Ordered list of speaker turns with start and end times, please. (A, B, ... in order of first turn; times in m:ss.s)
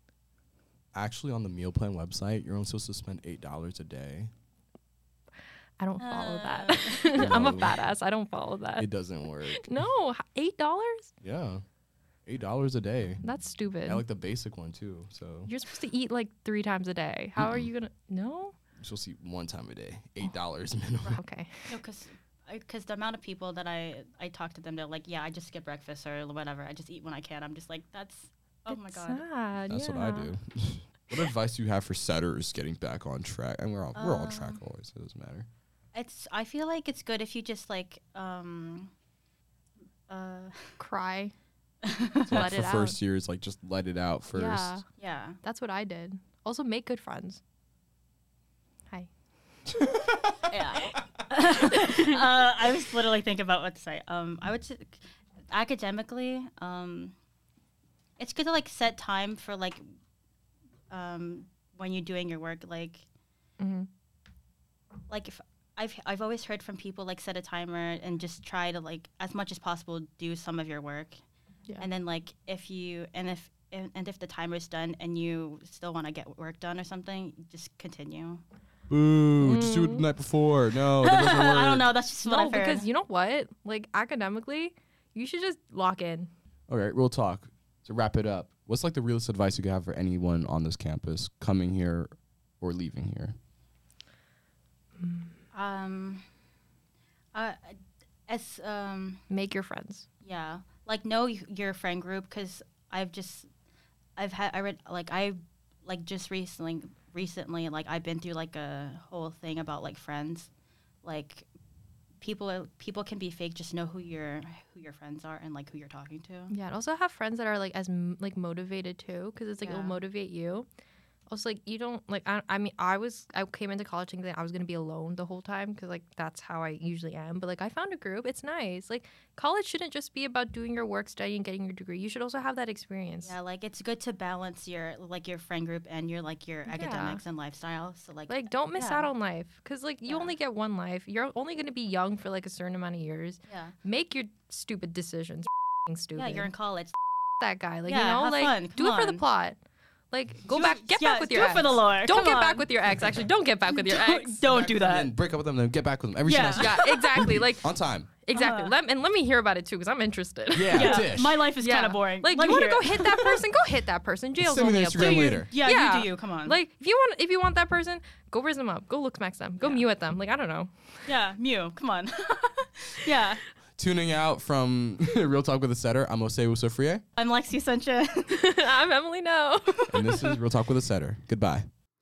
0:00.9-0:04.3 A
0:05.8-0:08.9 B
0:06.0-0:07.6 C
0:07.1-0:07.9 A
0:08.8-0:09.8 A
0:09.6-0:11.1 B
0:11.2-0:11.6 A
0:12.2-0:15.5 A
0:13.2-0:14.0 B
0:15.4-0:18.5 B
0:17.4-0:17.7 A
0:18.8-0:21.2 A
0:21.0-0:21.8 B
0:21.7-0:29.3 C
0:28.7-0:30.3 B
0:29.6-0:35.5 A
0:34.0-0:34.6 C
0:35.9-0:38.9 C
0:40.1-0:40.7 C
0:40.8-0:41.3 B
0:41.9-0:42.4 C
0:42.3-0:44.8 A
0:42.3-0:43.0 B
0:44.3-0:44.8 B
0:45.0-0:45.4 C
0:45.4-0:47.4 B
0:50.5-0:57.1 C
0:58.2-0:59.9 C
1:00.9-1:03.0 C
1:03.6-1:03.9 B
1:05.1-1:11.2 C
1:11.8-1:18.4 C
1:18.9-1:21.9 A
1:19.4-1:20.0 B
1:21.0-1:22.9 C
1:22.2-1:26.3 B
1:26.7-1:33.3 A
1:35.0-1:35.3 B
1:35.5-1:36.2 C
1:37.3-1:39.2 C
1:39.3-1:40.1 B
1:40.2-1:43.5 C
1:44.2-1:50.5 C
1:51.0-1:51.5 C
1:52.2-1:56.5 C
1:56.5-2:00.7 B
1:59.6-2:00.0 C
2:01.3-2:13.3 B
2:13.2-2:19.1 C
2:16.7-2:17.2 B
2:18.3-2:26.5 B
2:20.1-2:20.3 C
2:23.5-2:23.8 C
2:26.1-2:27.0 C
2:27.4-2:29.6 B
2:27.8-2:29.2 C
2:30.1-2:34.4 B
2:30.4-2:32.8 C
2:33.7-2:35.1 C
2:34.5-2:38.1 A
2:36.2-2:37.2 C
2:36.5-2:51.1 B
2:38.3-2:38.8 C
2:40.5-2:41.4 A
2:40.7-2:43.4 C
2:44.4-2:45.5 A
2:44.9-2:46.6 C
2:49.6-2:49.8 C
2:51.0-2:53.4 C
2:53.8-2:57.0 A
2:57.2-2:58.3 C
2:58.3-2:59.9 B
2:59.9-3:01.7 A
3:00.0-3:00.3 C